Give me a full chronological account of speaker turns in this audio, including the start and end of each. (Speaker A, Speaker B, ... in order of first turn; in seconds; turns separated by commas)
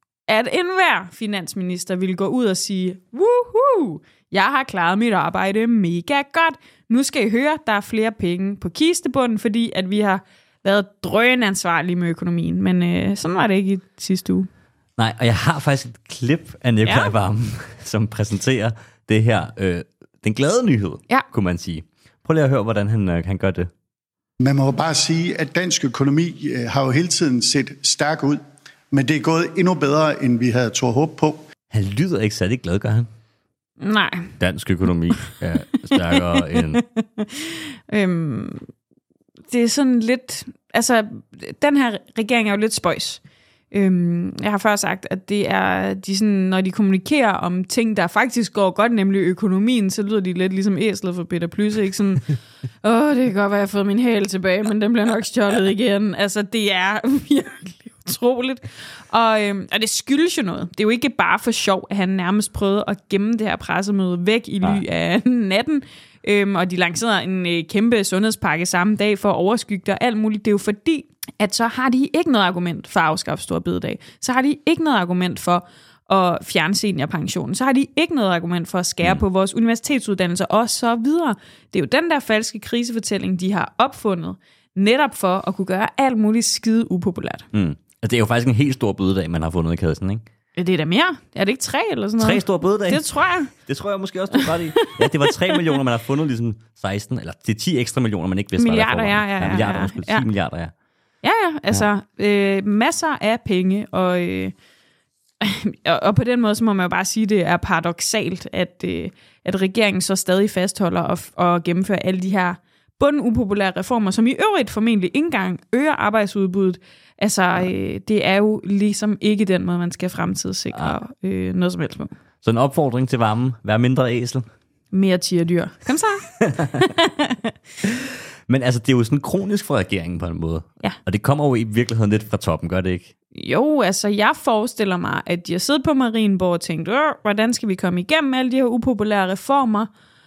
Speaker A: 0.3-14.5, Speaker B: 15.0-23.7, Speaker A: 16.8-17.1, Speaker C: 24.4-28.4, Speaker C: 28.9-31.4, Speaker B: 31.7-33.1, Speaker A: 33.8-34.4, Speaker B: 34.4-36.8, Speaker A: 35.8-38.7, Speaker A: 39.5-43.2, Speaker A: 43.7-87.5, Speaker B: 87.5-90.2, Speaker A: 90.6-93.5, Speaker B: 92.2-100.7, Speaker A: 94.3-95.8, Speaker A: 98.6-100.3, Speaker A: 101.2-104.5, Speaker A: 105.4-122.1, Speaker B: 122.4-124.5, Speaker A: 124.9-127.5, Speaker B: 126.4-126.9, Speaker B: 127.8-133.1, Speaker A: 133.3-139.9